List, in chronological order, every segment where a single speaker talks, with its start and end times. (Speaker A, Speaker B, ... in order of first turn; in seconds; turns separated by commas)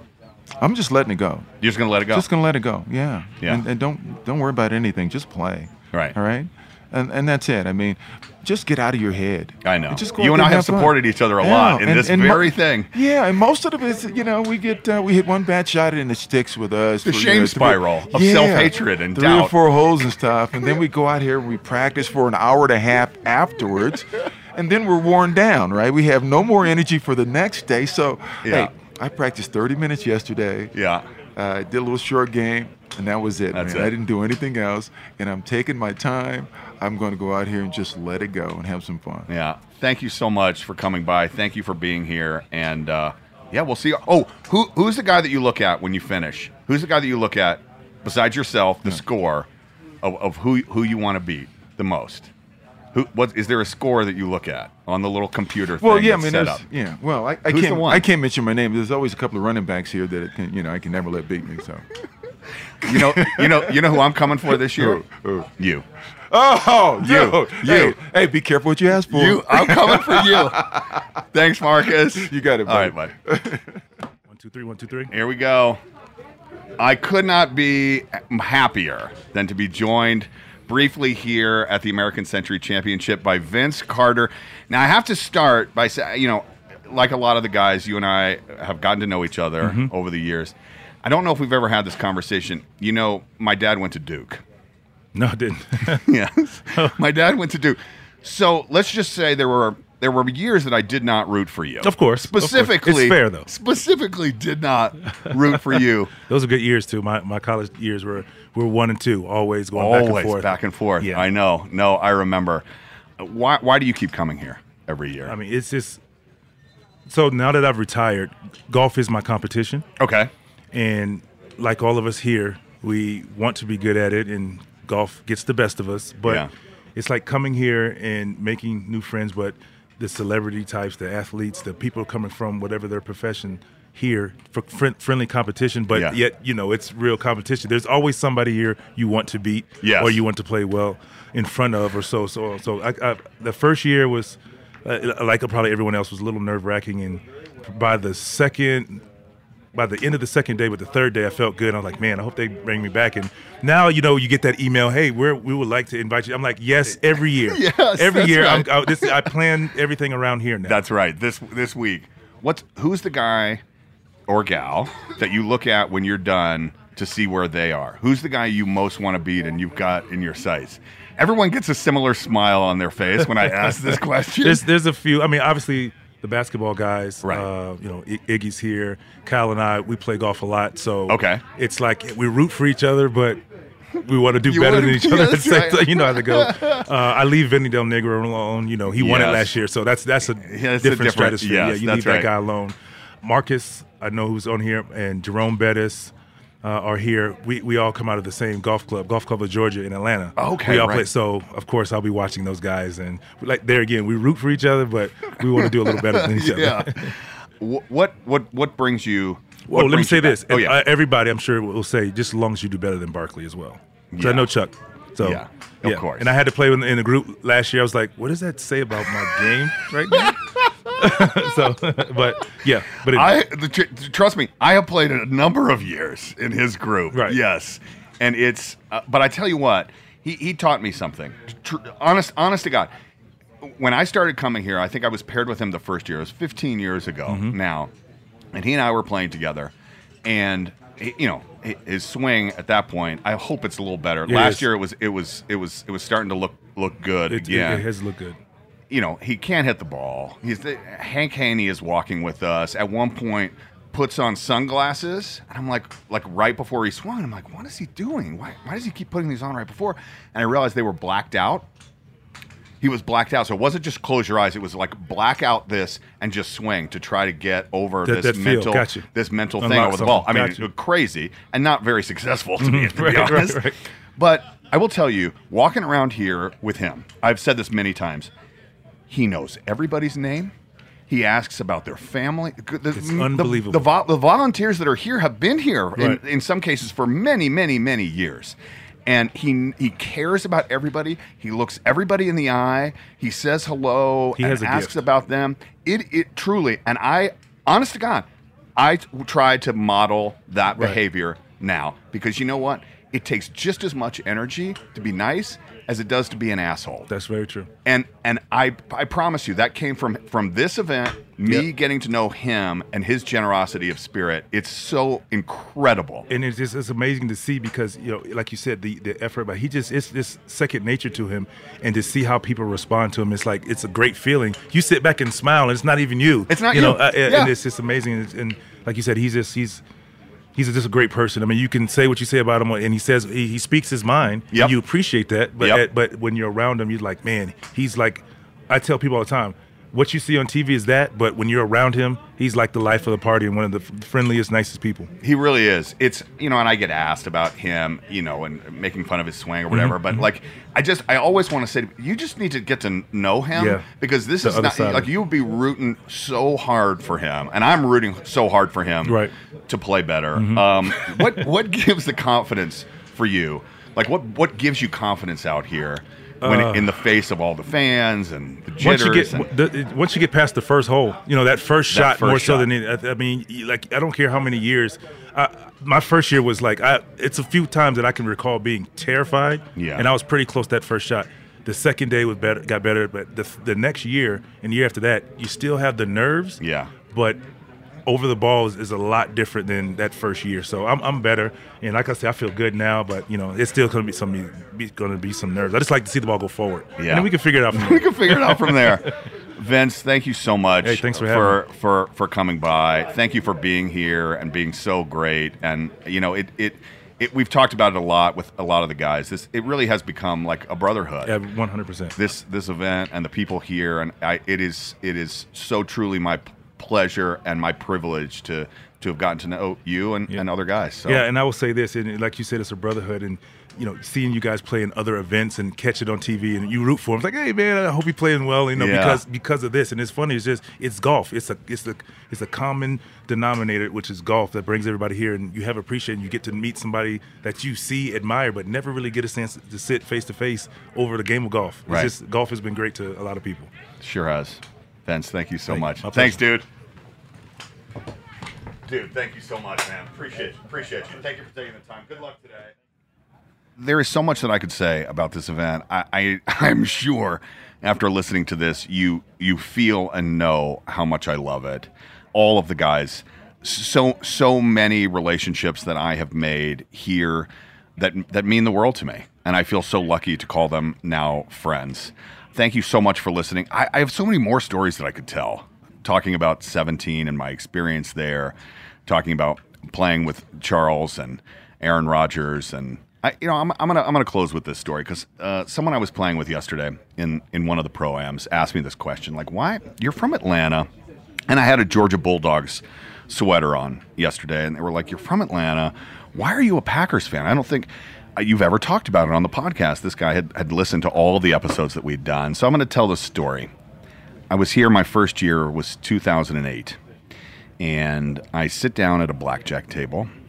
Speaker A: 0.6-1.5, Speaker B: 1.6-2.3, Speaker A: 2.1-30.7, Speaker B: 9.6-12.9, Speaker B: 17.0-19.5, Speaker B: 28.4-28.7, Speaker B: 30.7-31.0, Speaker A: 31.4-39.3, Speaker B: 33.5-33.9, Speaker B: 39.3-49.5, Speaker B: 50.0-52.3, Speaker B: 52.9-56.6, Speaker A: 55.8-61.9, Speaker B: 57.5-58.1, Speaker B: 62.8-65.1, Speaker A: 62.8-65.5, Speaker B: 65.6-65.9, Speaker A: 66.3-71.0, Speaker B: 67.0-68.0, Speaker B: 69.1-70.8, Speaker B: 71.3-73.1, Speaker A: 72.2-73.8, Speaker C: 74.3-75.1, Speaker B: 75.1-75.8, Speaker B: 76.8-94.4, Speaker C: 89.6-89.9, Speaker C: 95.2-96.1, Speaker B: 96.0-106.1, Speaker C: 96.7-97.0, Speaker C: 101.8-103.5, Speaker C: 105.4-111.2, Speaker B: 109.7-112.6, Speaker B: 113.2-115.3, Speaker C: 115.3-116.0, Speaker C: 117.1-119.9, Speaker B: 120.0-120.3, Speaker C: 120.7-149.0, Speaker B: 126.2-126.5, Speaker B: 135.9-136.2, Speaker B: 139.8-140.2, Speaker C: 149.7-160.8, Speaker B: 157.5-159.3, Speaker B: 160.7-163.6, Speaker B: 164.3-174.7, Speaker C: 174.4-183.4, Speaker B: 177.2-177.5, Speaker B: 181.1-181.4, Speaker C: 184.0-207.1, Speaker B: 184.4-186.9, Speaker B: 188.9-189.5, Speaker B: 190.4-192.3, Speaker B: 200.4-201.1, Speaker B: 206.1-210.8, Speaker C: 209.7-220.4, Speaker B: 214.1-214.5, Speaker B: 215.2-216.3, Speaker C: 221.0-223.3, Speaker B: 223.0-232.9, Speaker C: 227.1-227.4, Speaker B: 233.6-237.9, Speaker C: 237.3-237.6, Speaker B: 238.5-239.7, Speaker B: 240.2-247.9, Speaker C: 244.3-244.7, Speaker C: 247.3-248.4, Speaker B: 248.9-261.7, Speaker B: 262.8-278.3, Speaker C: 268.1-269.1, Speaker C: 269.6-270.7, Speaker C: 272.6-273.8, Speaker B: 279.1-280.5, Speaker B: 281.1-307.1, Speaker C: 282.9-283.9, Speaker C: 285.9-286.2, Speaker C: 294.4-295.0, Speaker C: 307.1-307.7, Speaker B: 307.9-316.3, Speaker C: 316.3-329.8, Speaker B: 326.5-327.5, Speaker C: 330.6-345.1, Speaker B: 345.2-369.5, Speaker C: 349.7-350.3, Speaker C: 353.5-353.9, Speaker C: 354.4-355.1, Speaker C: 359.0-359.3, Speaker C: 360.4-361.5, Speaker C: 366.4-366.9, Speaker C: 368.8-387.4, Speaker B: 371.9-372.7, Speaker B: 379.8-380.1, Speaker B: 386.6-386.9, Speaker C: 388.1-399.1, Speaker B: 397.0-411.4, Speaker C: 400.8-401.6, Speaker C: 411.2-412.2, Speaker B: 412.2-421.2, Speaker C: 421.1-443.7, Speaker B: 428.8-429.2, Speaker B: 444.0-446.6, Speaker C: 445.7-446.4, Speaker B: 448.9-452.7, Speaker B: 453.8-478.6, Speaker B: 479.1-490.9, Speaker B: 491.5-503.7, Speaker B: 504.5-507.0, Speaker B: 507.8-510.3